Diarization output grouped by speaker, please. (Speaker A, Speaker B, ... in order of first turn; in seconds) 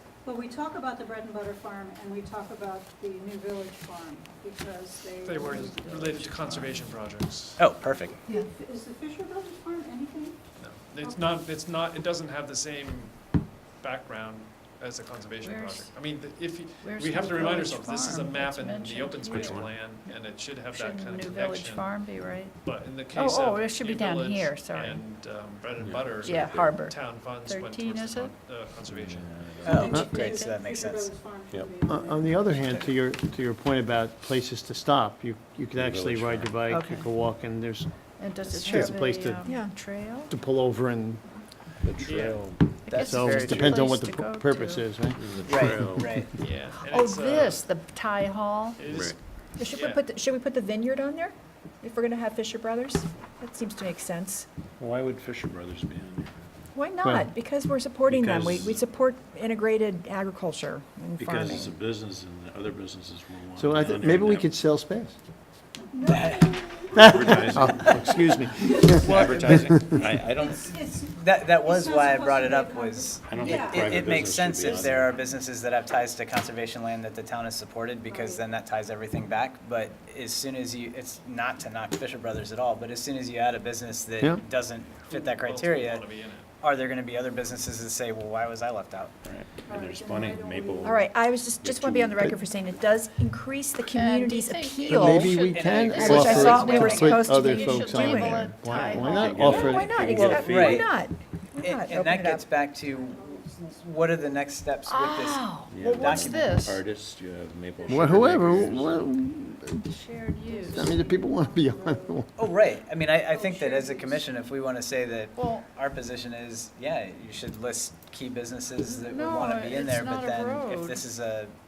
Speaker A: 0.2-6.7, 8.4-10.4, 11.0-11.4, 29.6-32.4, 65.9-67.4, 68.0-69.1, 70.2-74.0, 78.1-78.4, 89.6-91.0, 102.8-104.3, 107.7-108.4, 110.4-114.5
Speaker B: 5.2-7.6, 10.6-22.1, 22.6-29.9, 42.0-42.4, 46.4-47.6, 48.8-50.0, 85.0-86.5
Speaker C: 7.6-8.3, 29.6-31.1, 32.5-32.9, 42.9-43.9, 45.5-46.3, 66.0-66.8, 67.6-68.0, 71.2-86.1, 86.6-89.1, 95.3-96.8, 100.3-100.9, 101.6-106.6, 112.4-121.5
Speaker D: 15.4-15.9, 16.8-19.8, 20.7-22.6, 23.1-25.0, 26.2-28.3, 29.9-30.5, 36.7-37.1, 38.2-40.3, 42.9-44.9, 46.8-48.8, 93.8-99.7, 104.9-106.8, 109.9-110.8, 115.3-115.7, 118.8-121.0
Speaker E: 19.3-19.7, 25.8-26.8, 28.9-29.8, 35.7-36.6, 41.8-42.8, 45.2-46.1, 48.9-49.2, 54.8-56.3, 58.1-58.8, 61.2-64.5, 66.9-70.8, 73.2-75.3, 89.2-92.3, 98.6-100.8, 105.7-109.1
Speaker F: 29.9-30.2, 31.9-37.9, 38.5-39.4, 40.3-41.2, 42.9-46.2, 57.0-57.3, 63.6-65.2, 67.0-70.1, 94.9-100.3, 107.9-109.9, 110.7-112.3
Speaker G: 38.5-40.2, 49.6-54.5, 56.7-61.8, 90.8-102.5